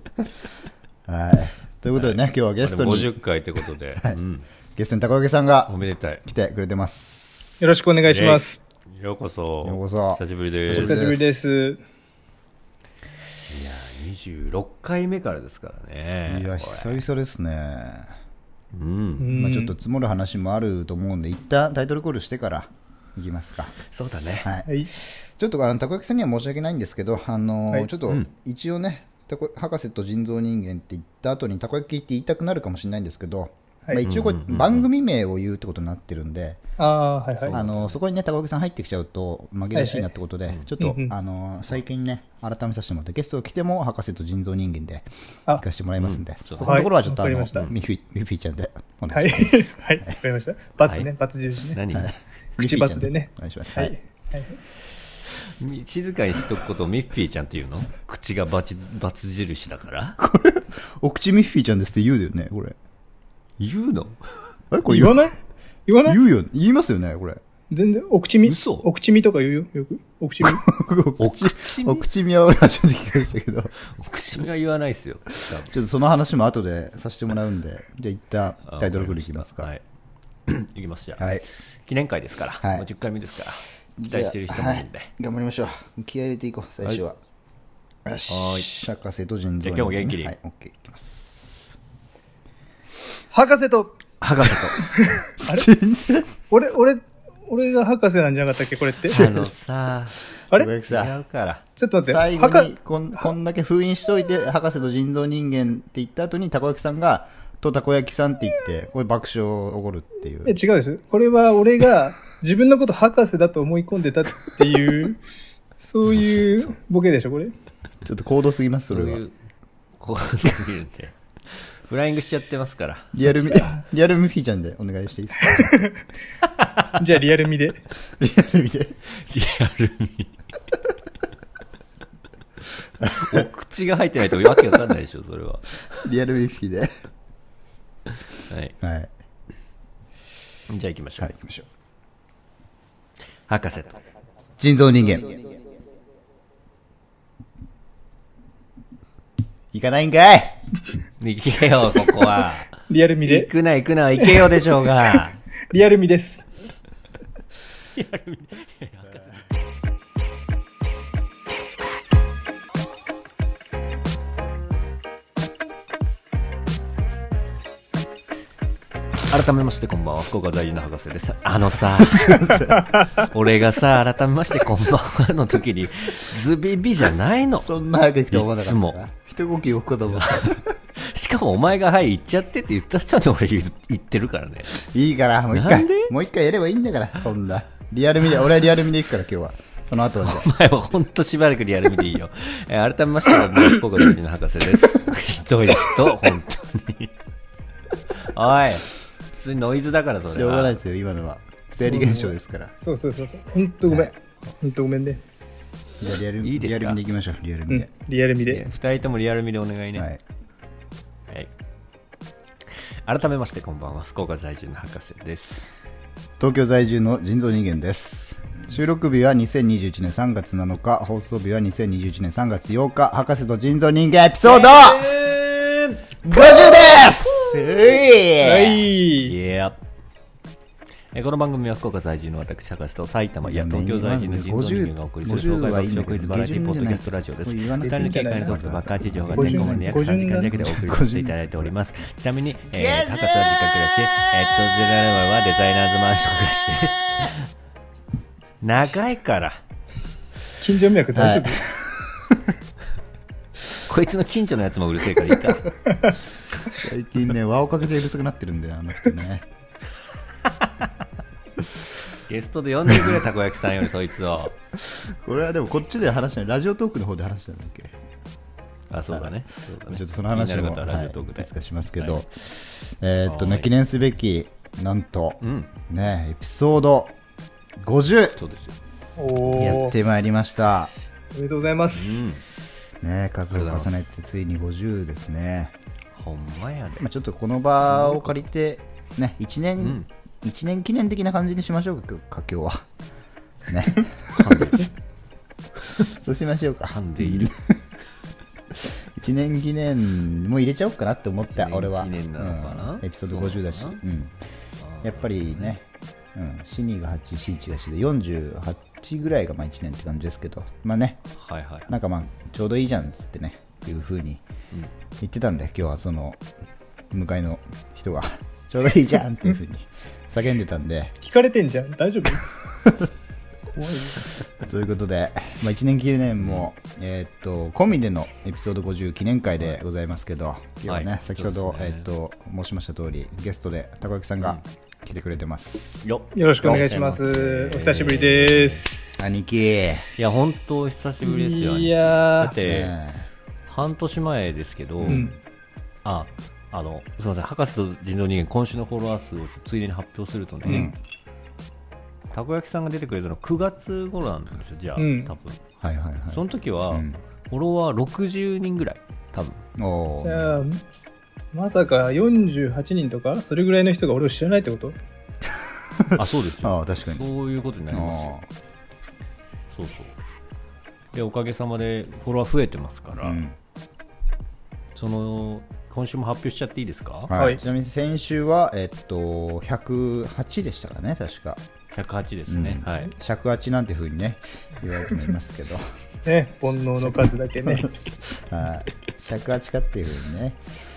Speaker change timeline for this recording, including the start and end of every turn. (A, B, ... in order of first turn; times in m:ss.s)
0:01.0-0:03.1 A
0:02.0-0:04.5 B
0:04.8-0:07.6 A
0:05.7-0:06.2 B
0:07.6-0:08.6 C
0:08.0-0:11.1 B
0:09.6-0:11.4 A
0:10.7-0:11.8 C
0:13.5-0:17.0 B
0:16.3-0:18.2 A
0:18.7-0:19.3 B
0:19.2-0:19.8 C
0:19.3-0:23.8 A
0:23.8-0:24.5 B
0:24.4-0:24.7 A
0:24.6-0:24.9 C
0:25.2-0:36.6 A
0:34.0-0:34.9 B
0:36.8-0:37.6 C
0:37.3-0:38.0 B
0:37.5-0:50.1 A
0:39.7-0:40.1 C
0:40.8-0:41.1 C
0:46.0-0:46.8 B
0:46.6-0:47.7 C
0:49.1-0:51.8 C
0:51.7-0:52.1 B
0:51.9-0:53.9 A
0:52.6-0:54.6 C
0:55.4-1:00.2 B
1:00.2-1:02.8 A
1:03.6-1:04.2 B
1:04.7-1:05.3 A
1:04.9-1:05.3 C
1:05.9-1:06.2 C
1:06.0-1:07.4 A
1:07.7-1:10.7 C
1:08.4-1:08.9 B
1:10.4-1:13.7 A
1:11.2-1:12.0 B
1:13.8-1:15.7 B
1:15.5-1:19.7 A
1:18.7-1:19.8 B
1:20.4-1:25.1 B
1:21.2-1:21.4 A
1:24.0-1:27.2 A
1:28.0-1:31.7 A
1:28.3-1:28.7 B
1:29.6-1:30.3 B
1:33.3-1:34.0 C
1:34.2-1:34.8 B
1:34.8-1:35.7 C
1:35.4-1:36.3 A
1:36.5-1:39.2 C
1:39.1-1:40.2 B
1:39.1-1:39.5 A
1:40.4-1:41.1 A
1:40.8-1:41.6 B
1:41.8-1:42.7 C
1:42.0-1:50.6 A
1:50.4-1:55.2 C
1:55.8-1:57.5 C
1:58.0-1:59.2 A
1:58.9-1:59.4 B
2:00.0-2:03.2 B
2:03.1-2:05.7 A
2:05.4-2:05.9 C
2:06.6-2:06.9 B
2:07.0-2:07.8 C
2:08.2-2:09.0 A
2:09.1-2:10.4 B
2:13.0-2:13.4 A
2:13.0-2:15.8 B
2:16.0-2:16.9 A
2:18.3-2:18.7 B
2:18.8-2:19.1 A
2:20.7-2:21.3 B
2:21.2-2:21.7 A
2:23.5-2:24.0 B
2:24.6-2:25.5 A
2:29.7-2:30.6 A
2:31.2-2:32.7 B
2:32.9-2:33.5 C
2:33.2-2:35.4 B
2:34.2-2:35.2 C
2:35.7-2:36.5 C
2:37.9-2:39.4 B
2:49.3-2:52.6 B
2:52.0-2:52.9 A
2:53.1-2:57.7 B
2:57.6-3:00.7 A
2:58.3-2:59.0 B
3:00.1-3:04.7 B
3:04.7-3:10.5 A
3:05.5-3:06.1 B
3:10.2-3:17.1 B
3:18.1-3:20.8 B
3:20.3-3:22.7 A
3:21.8-3:25.2 C
3:26.0-3:27.9 A
3:26.4-3:27.0 B
3:27.7-3:28.6 C
3:28.5-3:30.1 B
3:29.9-3:30.2 A
3:33.0-3:35.7 B
3:36.4-3:45.1 A
3:44.4-3:46.1 B
3:46.2-3:48.9 A
3:48.4-3:49.3 C
3:49.2-3:49.8 B
3:51.1-4:07.5 B
3:53.4-4:01.7 A
3:57.9-3:58.6 C
3:59.3-4:00.5 C
4:02.7-4:03.6 A
4:08.6-4:09.6 B
4:10.6-4:11.6 C
4:11.1-4:12.4 A
4:13.8-4:15.8 B
4:16.7-4:19.4 A
4:22.2-4:24.6 B
4:24.8-4:27.9 A
4:28.9-4:32.2 B
4:29.1-4:37.1 A
4:33.2-4:33.7 B
4:35.4-4:35.7 B
4:37.8-4:38.4 A
4:38.4-4:38.8 B
4:39.2-4:40.0 C
4:39.5-4:40.9 A
4:41.3-4:42.3 C
4:41.9-4:42.4 B
4:43.0-4:45.7 A
4:43.5-4:44.1 B
4:46.1-4:47.0 B
4:47.0-4:52.8 A
4:47.8-4:48.4 B
4:49.8-4:50.1 B
4:53.7-4:54.9 A
4:54.3-4:54.9 B
4:56.0-4:57.8 A
4:56.9-4:57.5 B
4:58.7-5:04.4 A
5:01.5-5:04.0 B
5:04.8-5:05.7 B
5:05.0-5:11.2 A
5:11.3-5:11.9 B
5:11.9-5:14.4 A
5:15.2-5:16.4 A
5:17.1-5:21.1 A
5:21.2-5:22.5 C
5:23.7-5:24.3 C
5:24.6-5:36.1 A
5:26.4-5:26.7 B
5:30.8-5:32.1 B
5:36.0-5:38.8 B
5:36.3-5:39.2 C
5:39.2-5:40.1 A
5:40.2-5:42.9 B
5:41.2-5:42.6 C
5:42.6-5:43.3 A
5:43.6-5:45.3 B
5:45.0-5:45.4 A
5:45.1-5:45.3 C
5:46.0-5:50.9 B
5:50.6-5:50.9 C
5:50.6-5:51.0 A
5:52.3-5:55.6 B
5:55.0-5:55.3 C
5:55.8-5:57.2 A
5:56.3-5:59.6 B
5:59.8-6:00.6 A
6:00.2-6:00.8 C
6:01.5-6:05.0 C
6:05.4-6:07.2 A
6:06.2-6:08.4 B
6:07.9-6:08.5 A
6:09.7-6:10.1 B
6:11.1-6:13.4 B
6:13.2-6:13.6 A
6:14.9-6:17.3 B
6:17.3-6:21.6 A
6:17.3-6:17.6 C
6:21.9-6:23.1 B
6:22.5-6:26.0 A
6:26.2-6:27.9 C
6:27.0-6:30.6 A